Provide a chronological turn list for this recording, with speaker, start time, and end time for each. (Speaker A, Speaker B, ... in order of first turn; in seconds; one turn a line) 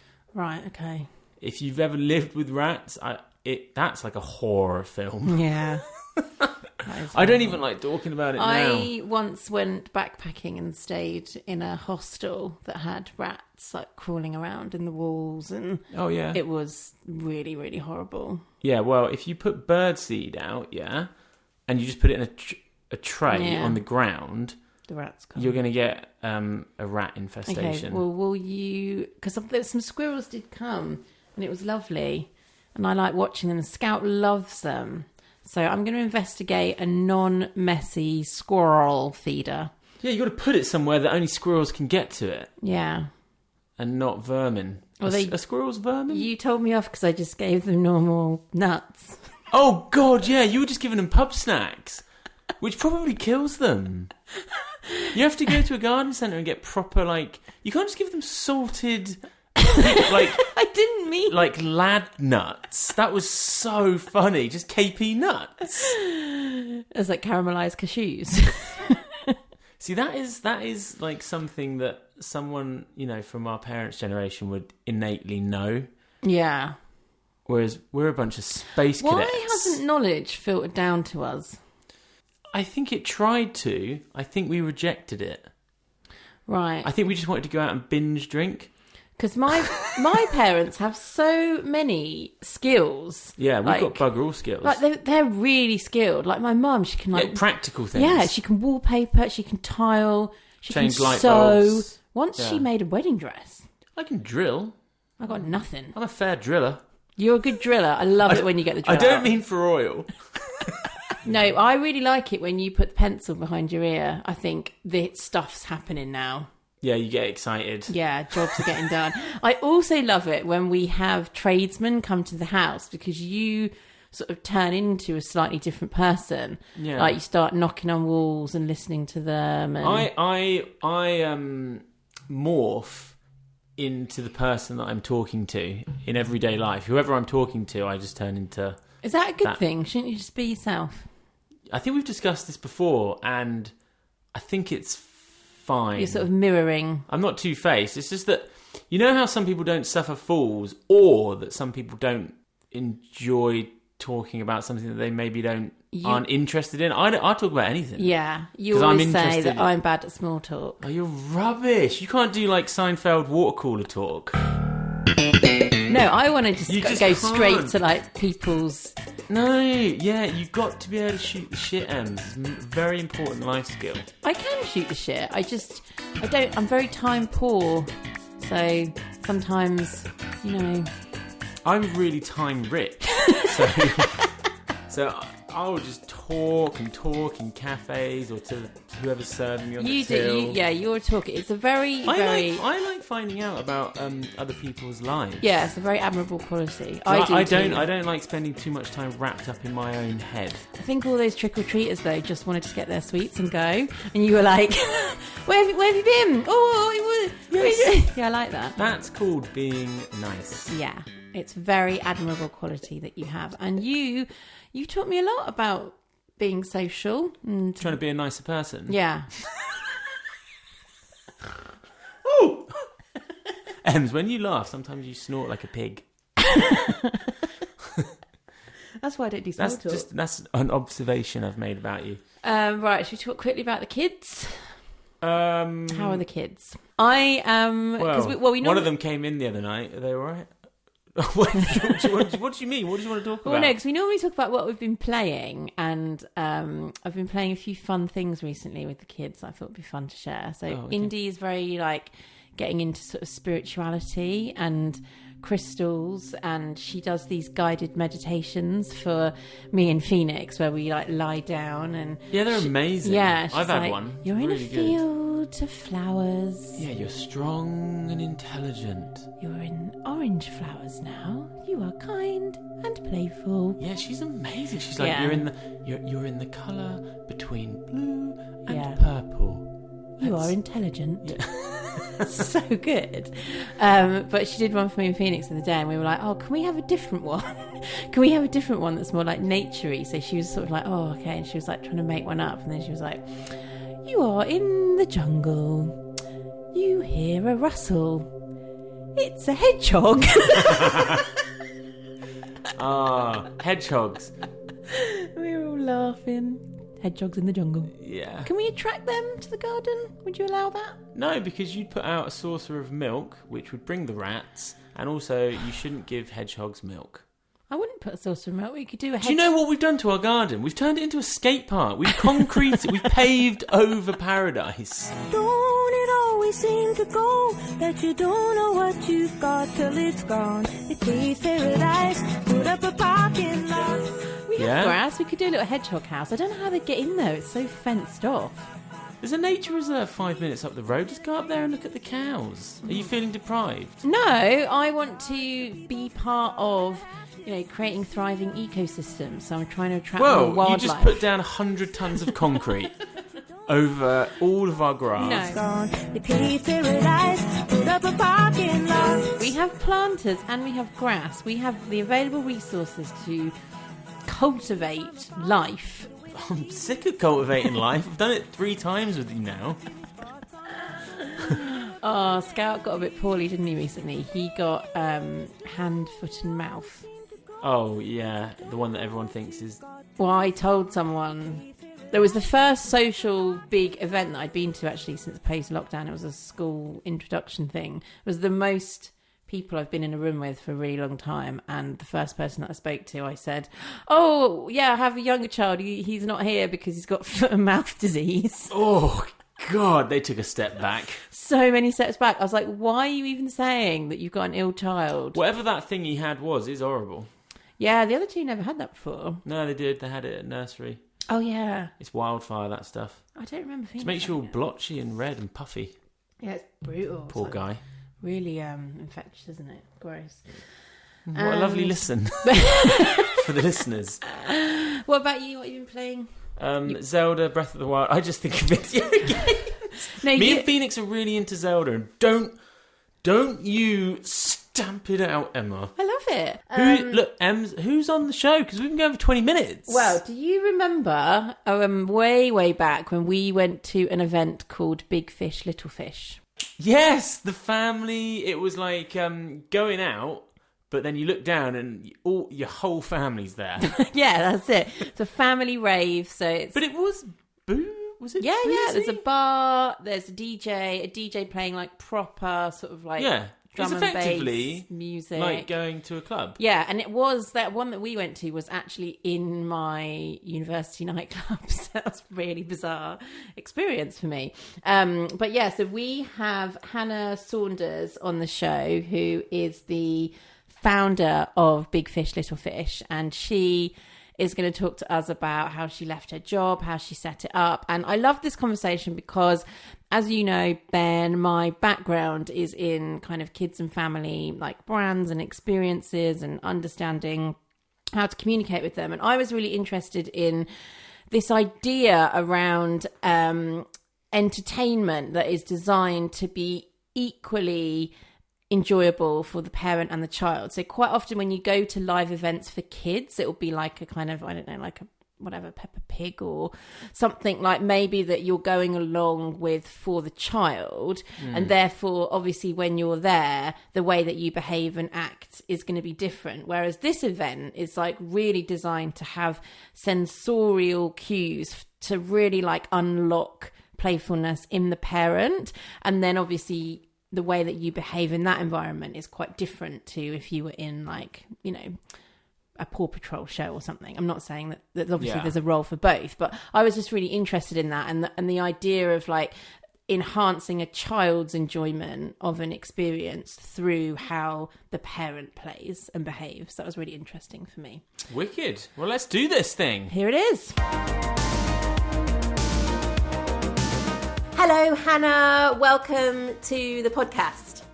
Speaker A: 0.3-1.1
Speaker B: 1.4-5.6
Speaker A: 5.3-6.1
Speaker B: 6.2-6.5
Speaker A: 6.8-18.4
Speaker B: 7.1-8.9
Speaker B: 15.9-16.4
Speaker B: 18.6-28.0
Speaker A: 23.3-23.9
Speaker A: 24.9-25.6
Speaker A: 27.5-39.7
Speaker B: 40.0-42.5
Speaker A: 42.6-43.1
Speaker B: 43.8-46.3
Speaker A: 45.0-49.4
Speaker B: 49.5-54.2
Speaker B: 55.1-66.0
Speaker A: 60.5-61.4
Speaker A: 66.9-69.3
Speaker B: 69.8-75.9
Speaker A: 76.2-76.8
Speaker B: 77.5-79.8
Speaker A: 79.0-81.6
Speaker B: 82.5-85.5
Speaker A: 86.5-86.9
Speaker B: 86.8-88.8
Speaker A: 89.2-103.7
Speaker B: 93.4-94.8
Speaker B: 97.1-98.3
Speaker B: 100.7-102.7
Speaker B: 104.0-106.8
Speaker A: 105.2-106.0
Speaker A: 107.2-109.4
Speaker B: 108.2-110.7
Speaker A: 111.2-116.5
Speaker B: 111.2-111.5
Speaker B: 116.8-118.6
Speaker A: 117.9-130.1
Speaker B: 126.8-127.2
Speaker B: 129.8-133.2
Speaker B: 133.8-139.6
Speaker A: 139.0-141.1
Speaker B: 141.7-143.8
Speaker B: 144.3-146.3
Speaker A: 146.0-147.1
Speaker B: 147.1-158.1
Speaker A: 155.9-156.2
Speaker A: 158.0-160.8
Speaker B: 158.7-159.7
Speaker B: 160.8-164.4
Speaker A: 165.9-168.9
Speaker B: 166.7-167.8
Speaker B: 169.3-174.1
Speaker A: 174.2-180.9
Speaker B: 181.6-184.2
Speaker B: 184.9-190.6
Speaker A: 189.8-192.6
Speaker B: 192.1-195.5
Speaker A: 195.4-197.9
Speaker B: 197.1-200.7
Speaker A: 200.7-208.8
Speaker B: 207.5-208.2
Speaker B: 208.8-210.7
Speaker A: 210.7-218.0
Speaker B: 217.8-219.3
Speaker A: 218.9-219.4
Speaker B: 222.2-222.8
Speaker B: 223.8-226.6
Speaker A: 229.0-230.1
Speaker B: 229.6-232.2
Speaker A: 232.4-234.8
Speaker B: 235.2-236.2
Speaker A: 235.9-238.9
Speaker B: 238.0-243.7
Speaker A: 243.4-266.8
Speaker B: 250.7-251.1
Speaker B: 262.3-265.0
Speaker B: 266.8-269.3
Speaker A: 269.4-273.8
Speaker B: 273.8-282.2
Speaker A: 275.0-275.4
Speaker A: 278.7-279.0
Speaker A: 280.2-296.0
Speaker A: 296.7-298.3
Speaker A: 299.1-301.2
Speaker B: 300.7-301.0
Speaker B: 302.7-304.4
Speaker A: 304.9-311.0
Speaker B: 308.0-308.5
Speaker B: 311.1-317.2
Speaker A: 317.7-319.5
Speaker B: 319.2-325.1
Speaker C: 325.3-334.1
Speaker A: 334.5-338.7
Speaker B: 334.6-335.0
Speaker B: 339.2-344.0
Speaker A: 342.9-343.1
Speaker A: 344.0-351.3
Speaker B: 350.2-353.0
Speaker B: 353.7-355.5
Speaker A: 355.2-355.6
Speaker C: 355.3-359.5
Speaker A: 359.4-363.6
Speaker A: 364.2-366.1
Speaker B: 366.3-369.8
Speaker A: 371.5-377.1
Speaker B: 377.6-379.8
Speaker A: 380.2-398.7
Speaker B: 398.7-401.2
Speaker A: 401.3-405.4
Speaker B: 405.3-407.3
Speaker A: 407.8-409.4
Speaker B: 409.4-411.0
Speaker A: 411.3-411.9
Speaker B: 412.0-416.0
Speaker A: 413.4-414.5
Speaker A: 416.4-423.0
Speaker B: 417.3-417.8
Speaker B: 421.3-424.3
Speaker A: 424.5-427.0
Speaker B: 426.6-436.0
Speaker A: 430.2-430.7
Speaker A: 436.0-437.2
Speaker B: 436.7-440.2
Speaker A: 439.9-446.4
Speaker B: 446.8-454.1
Speaker A: 454.0-456.8
Speaker B: 456.7-459.2
Speaker A: 458.4-465.8
Speaker B: 463.2-466.6
Speaker A: 466.6-497.6
Speaker A: 498.1-500.7
Speaker A: 501.3-508.1
Speaker A: 508.7-542.2
Speaker B: 521.4-521.7
Speaker A: 542.8-549.5
Speaker B: 545.2-545.6
Speaker A: 550.1-558.0
Speaker B: 558.3-560.1
Speaker A: 560.1-560.8
Speaker A: 564.5-567.8